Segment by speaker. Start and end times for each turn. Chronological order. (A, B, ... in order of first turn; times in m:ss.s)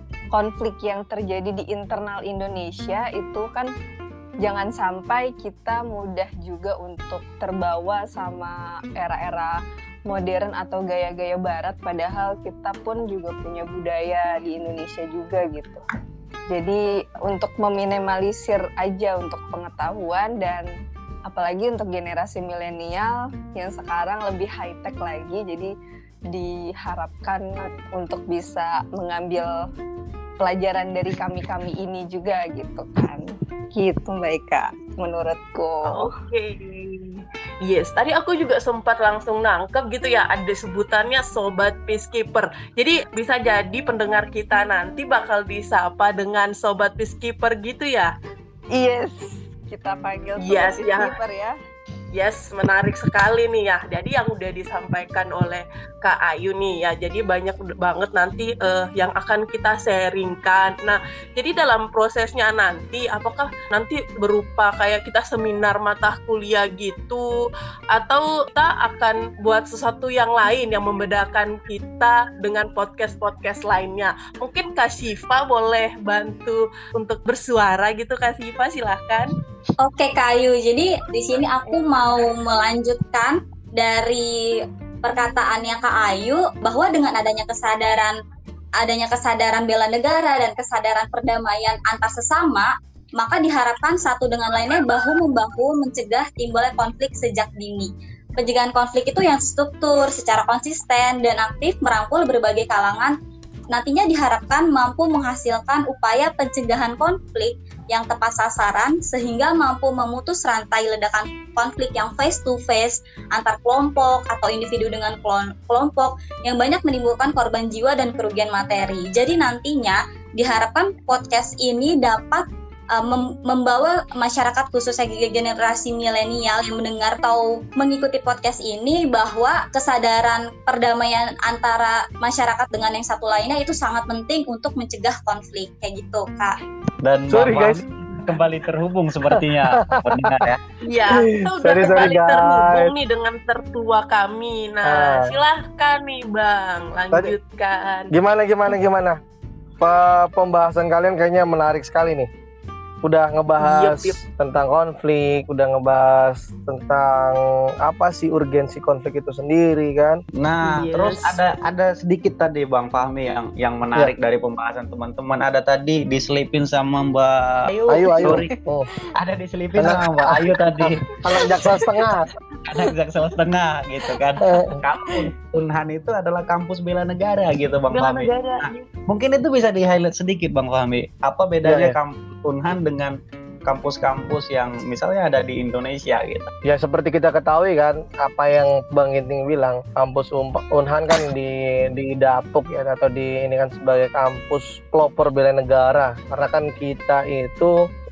0:00.3-0:03.7 A
0:04.4-0:15.8 A
0:16.5-0:20.7 A
0:21.3-0:25.7 A
0:26.3-0:29.6 A
0:30.4-0:36.1 A
0:35.8-0:48.1 B
0:48.7-0:51.6 A
0:50.4-0:51.1 B
0:52.1-1:19.3 B
1:19.8-1:28.2 C
1:28.8-1:43.2 C
1:43.7-2:16.6 C
2:17.0-2:20.6 D
2:17.3-2:17.8 E
2:19.3-2:20.4 E
2:20.8-2:28.1 B
2:21.1-2:22.9 E
2:24.8-2:25.4 E
2:28.1-2:29.2 E
2:29.8-2:32.3 E
2:33.0-2:40.2 E
2:33.6-2:34.2 B
2:40.4-2:48.5 D
2:40.6-2:41.4 B
2:47.9-2:48.9 E
2:49.1-2:51.2 D
2:49.8-2:52.3 E
2:52.6-3:06.5 D
2:54.4-2:54.8 E
2:57.9-2:58.8 B
3:01.6-3:02.0 E
3:06.6-3:17.8 E